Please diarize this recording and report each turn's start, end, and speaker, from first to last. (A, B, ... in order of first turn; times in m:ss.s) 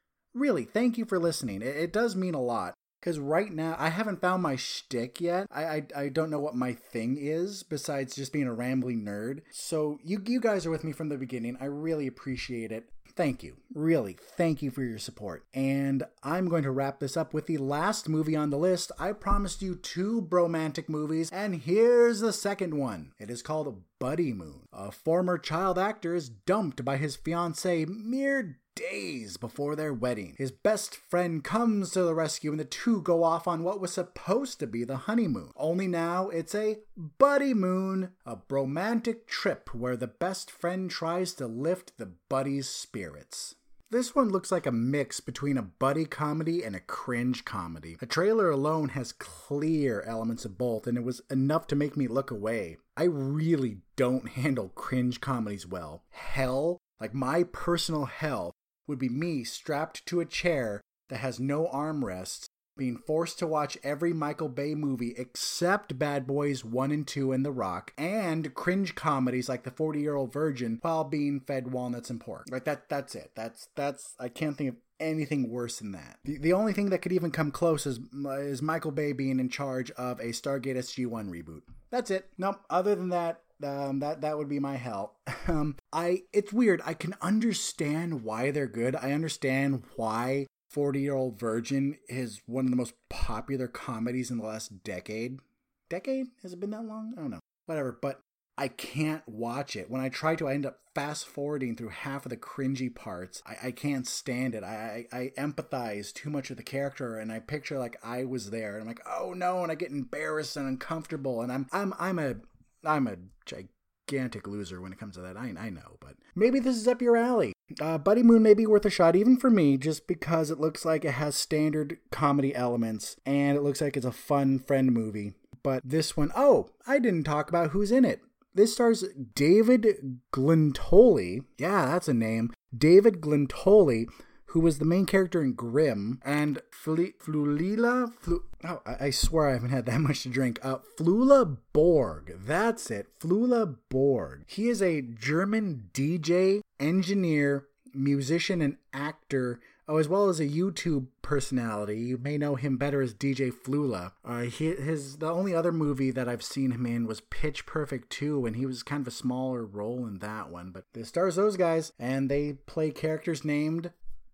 0:00.3-2:43.9 A